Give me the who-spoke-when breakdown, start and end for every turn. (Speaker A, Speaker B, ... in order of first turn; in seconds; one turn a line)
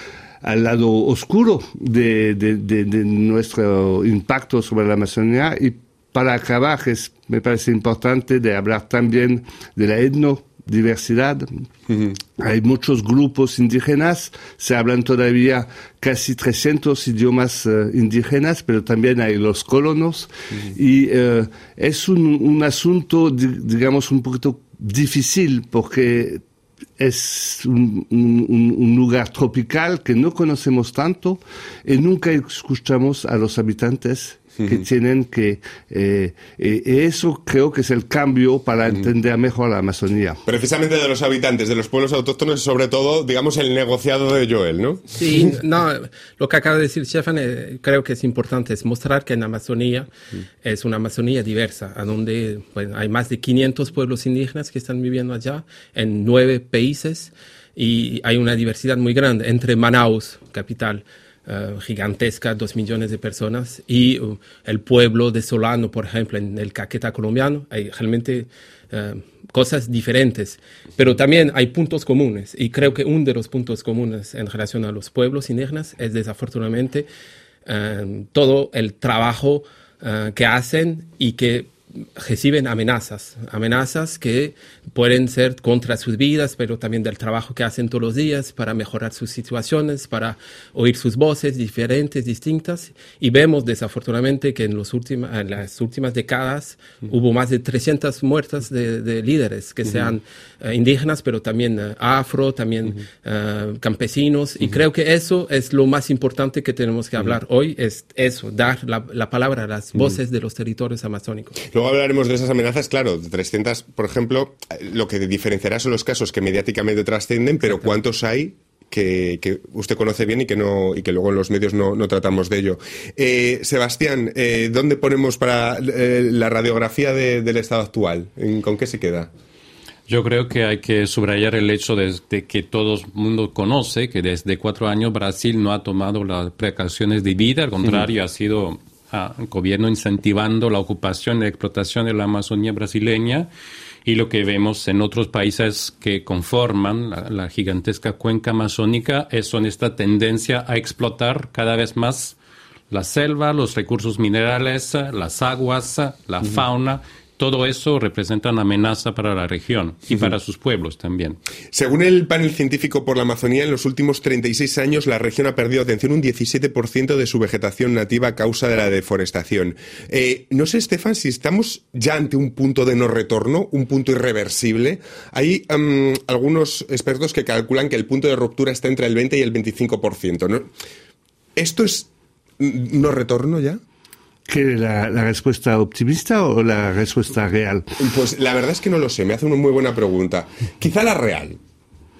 Speaker A: 0.4-11.6
Speaker A: 12.3-26.4
Speaker A: 27.0-40.4
Speaker B: 40.5-45.2
Speaker C: 45.2-50.1
Speaker C: 50.6-77.1
Speaker C: 77.7-111.6
Speaker B: 111.7-129.3
Speaker D: 130.1-143.5
Speaker D: 144.1-152.4
Speaker D: 152.9-161.4
Speaker B: 161.7-180.7
Speaker B: 181.6-182.1
Speaker B: 182.6-183.8
Speaker A: 184.5-187.9
Speaker B: 188.0-191.6